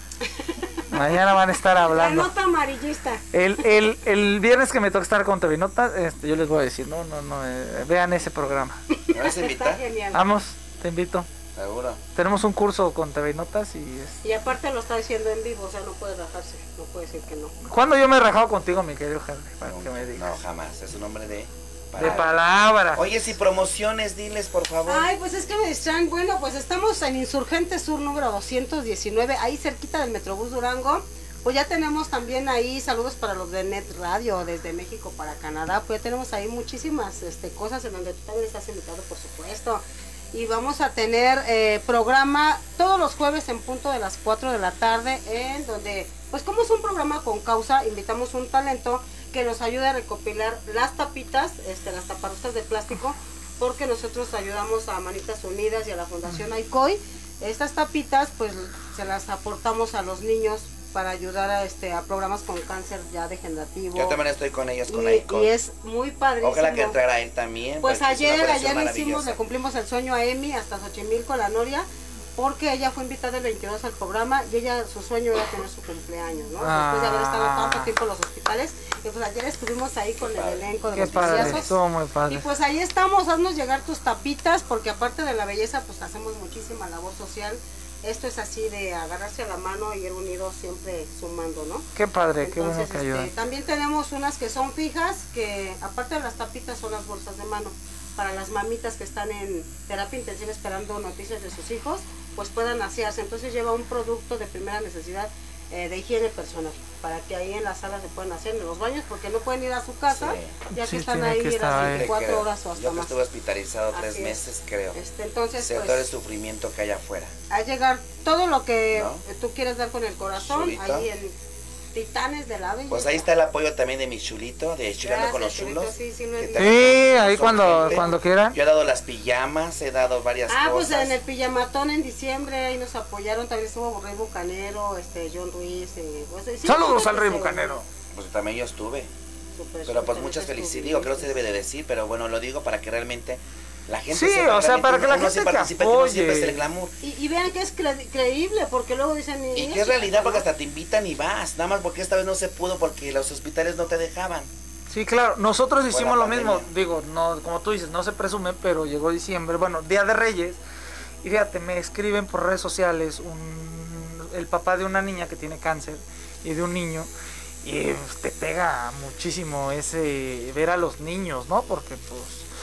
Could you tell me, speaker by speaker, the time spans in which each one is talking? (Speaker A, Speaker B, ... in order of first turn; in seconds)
Speaker A: 0.2-0.7, 1.9-3.2, 8.9-10.2, 14.2-17.5, 22.0-22.3, 24.9-64.2, 64.9-67.0, 67.8-81.7, 82.3-91.9, 92.4-113.2, 113.9-116.1, 117.5-121.4, 121.9-123.3, 125.0-128.1, 130.5-137.8, 139.6-141.3, 147.0-150.4
Speaker B: 0.9-2.3, 3.3-8.8, 10.1-11.3, 12.2-14.2, 17.6-20.3, 22.0-23.0, 76.6-77.9, 81.0-82.5, 92.0-93.3, 110.8-112.1, 126.6-128.6, 136.7-137.8, 144.1-146.6, 154.9-160.6, 161.2-167.1, 167.6-172.5
Speaker C: 9.1-9.8, 11.6-12.0, 19.6-22.4, 22.9-25.1, 64.0-65.5, 66.4-69.4, 80.2-81.8, 110.1-110.6, 111.8-115.0, 115.6-117.3, 118.9-119.2, 120.4-121.1, 122.9-131.2, 138.1-139.1, 139.9-146.9, 149.5-154.5, 155.9-156.7